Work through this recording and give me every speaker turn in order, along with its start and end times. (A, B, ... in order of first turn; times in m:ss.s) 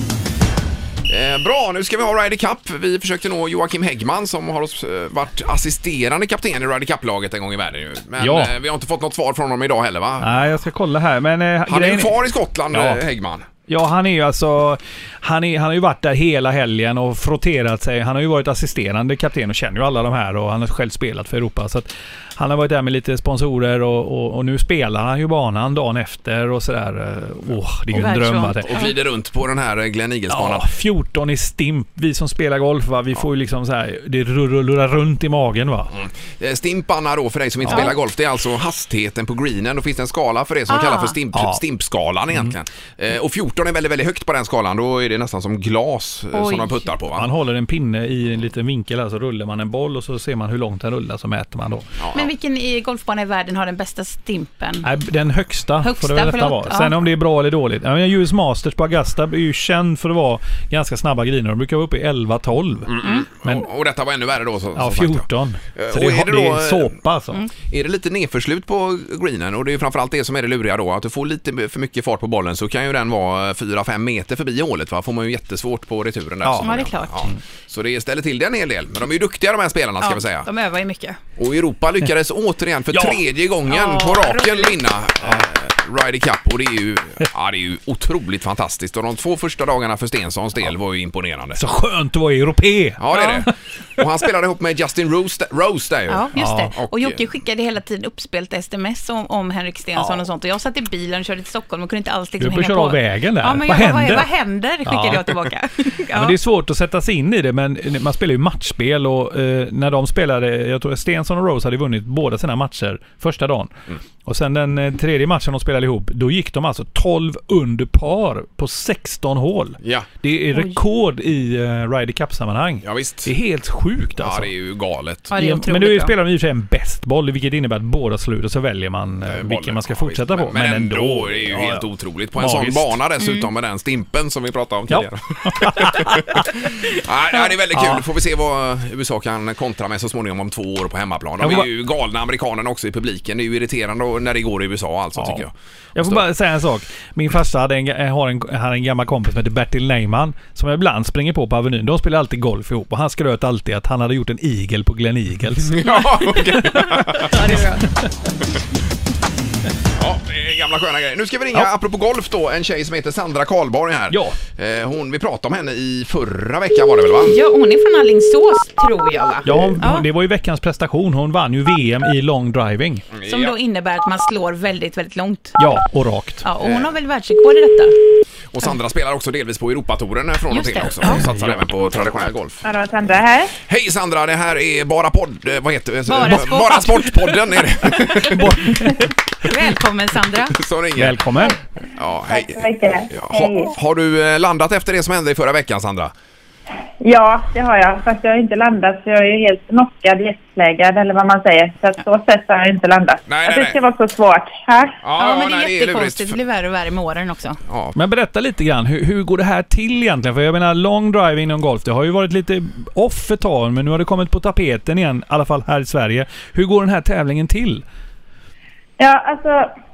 0:01.1-0:10.3 A
0:08.2-0:08.5 B
0:10.2-0:13.0 B
0:11.7-0:13.5 A
0:13.7-0:28.7 B
0:27.9-0:28.9 C
0:28.7-0:30.7 A
0:30.3-0:35.9 B
0:35.9-0:47.3 A
0:40.7-0:41.2 C
0:41.3-0:41.6 B
0:46.3-0:46.9 C
0:47.1-0:51.9 B
0:52.0-0:52.3 A
0:52.1-0:54.9 C
0:54.8-1:03.7 B
0:55.8-0:57.0 C
1:02.9-1:07.0 A
1:04.8-1:07.4 B
1:07.7-1:20.5 A
1:16.4-1:16.8 B
1:16.6-1:17.2 C
1:20.0-1:21.2 C
1:21.4-1:31.6 A
1:22.9-1:23.2 B
1:23.7-1:24.8 C
1:31.6-1:33.5 B
1:33.0-1:37.2 A
1:36.1-1:46.4 C
1:36.4-1:36.7 B
1:40.0-1:40.2 B
1:42.4-1:44.3 B
1:44.9-1:45.2 B
1:46.1-1:53.7 B
1:54.2-2:04.5 B
1:59.8-2:00.1 A
2:00.5-2:00.8 C
2:02.8-2:03.3 A
2:04.2-2:05.3 A
2:05.3-2:06.2 C
2:05.4-2:11.8 B
2:09.3-2:26.2 A
2:12.4-2:13.0 B
2:13.2-2:13.5 C
2:14.9-2:16.6 B
2:17.8-2:18.0 B
2:21.4-2:21.7 B
2:25.2-2:38.4 B
2:35.7-2:37.4 A
2:37.2-2:37.8 C
2:40.0-2:47.4 A
2:44.1-2:44.4 B
2:47.2-2:50.1 C
2:49.4-2:53.1 B
2:53.1-2:53.5 A
2:53.2-2:55.6 C
2:55.6-2:56.4 B
2:56.4-2:58.0 C
2:56.6-2:56.9 A
2:58.5-3:02.7 A
3:00.5-3:01.2 C
3:01.1-3:02.2 B
3:02.6-3:03.6 D
3:03.6-3:08.7 A
3:06.1-3:08.9 C
3:08.1-3:09.1 B
3:09.4-3:10.6 C
3:10.5-3:11.4 A
3:11.0-3:11.6 B
3:12.0-3:16.1 A
3:12.3-3:13.7 D
3:17.0-3:25.0 D
3:23.3-3:23.8 A
3:25.0-3:26.4 A
3:25.2-3:27.6 C
3:27.7-3:28.0 A
3:28.0-3:37.8 B
3:39.0-3:39.7 D